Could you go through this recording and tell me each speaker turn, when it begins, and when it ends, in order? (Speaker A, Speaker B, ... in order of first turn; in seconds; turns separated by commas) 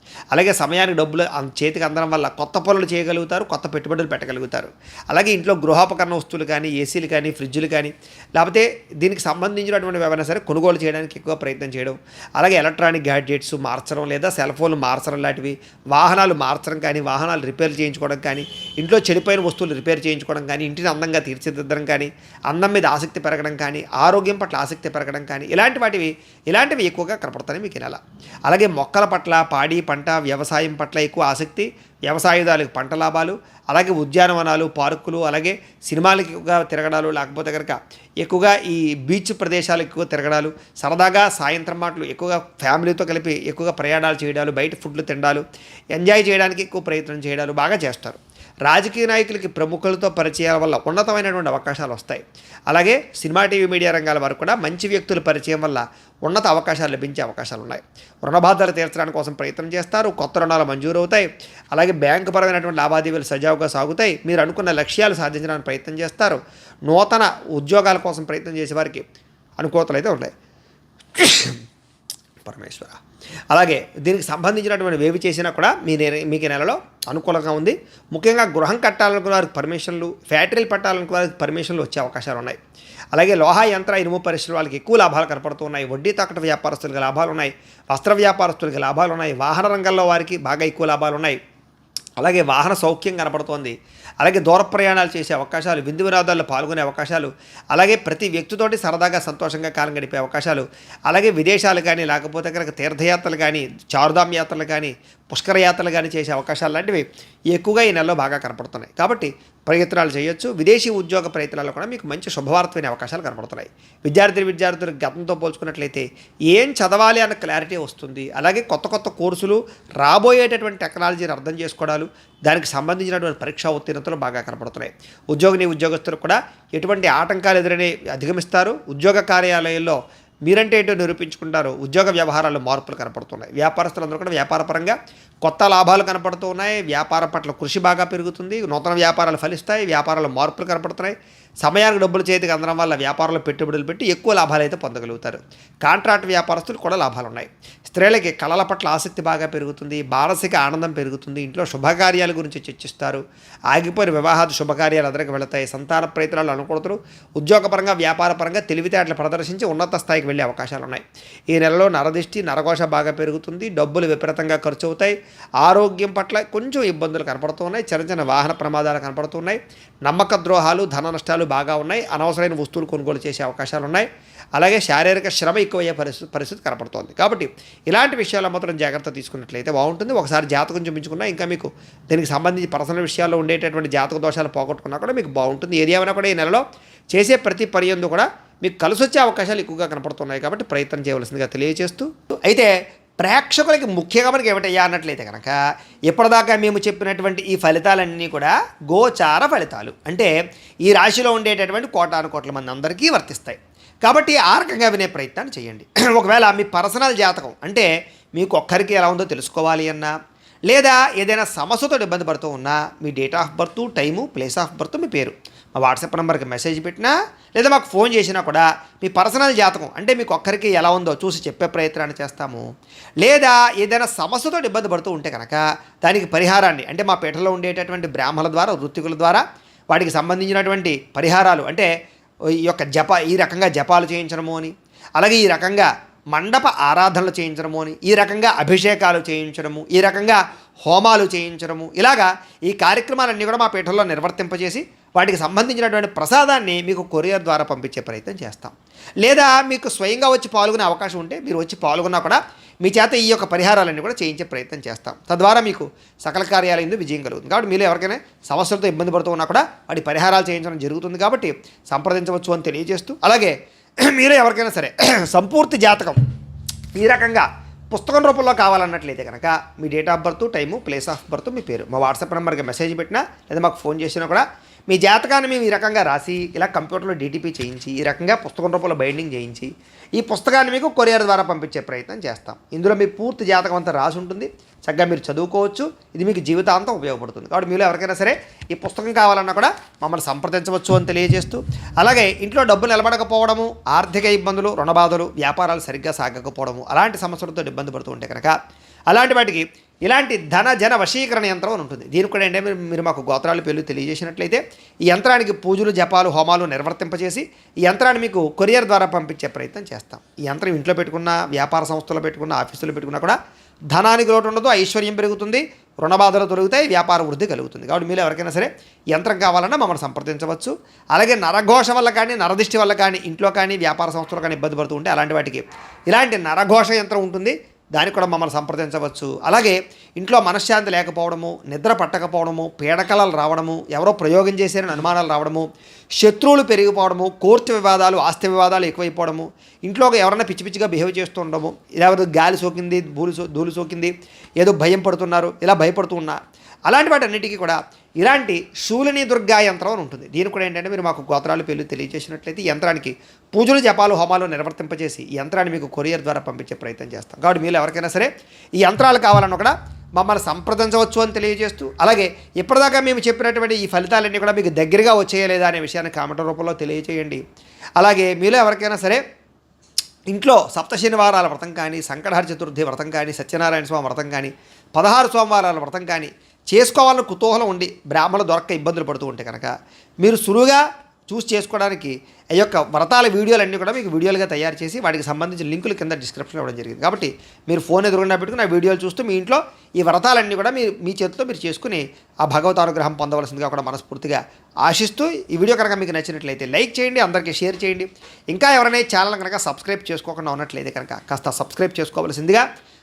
Speaker A: 0.3-69.0, Speaker A: 69.6-70.3, Speaker A: 71.2-71.6, Speaker A: 72.4-73.0, Speaker A: 73.5-82.6, Speaker A: 83.1-91.4, Speaker A: 92.2-200.3, Speaker A: 200.8-210.1, Speaker A: 210.7-222.7, Speaker A: 223.2-231.9, Speaker A: 232.6-266.2, Speaker A: 266.9-298.6, Speaker A: 299.1-304.6, Speaker A: 305.1-313.4, Speaker A: 313.9-335.6, Speaker A: 336.2-358.3, Speaker A: 358.8-367.4, Speaker A: 368.0-369.2, Speaker A: 370.3-402.7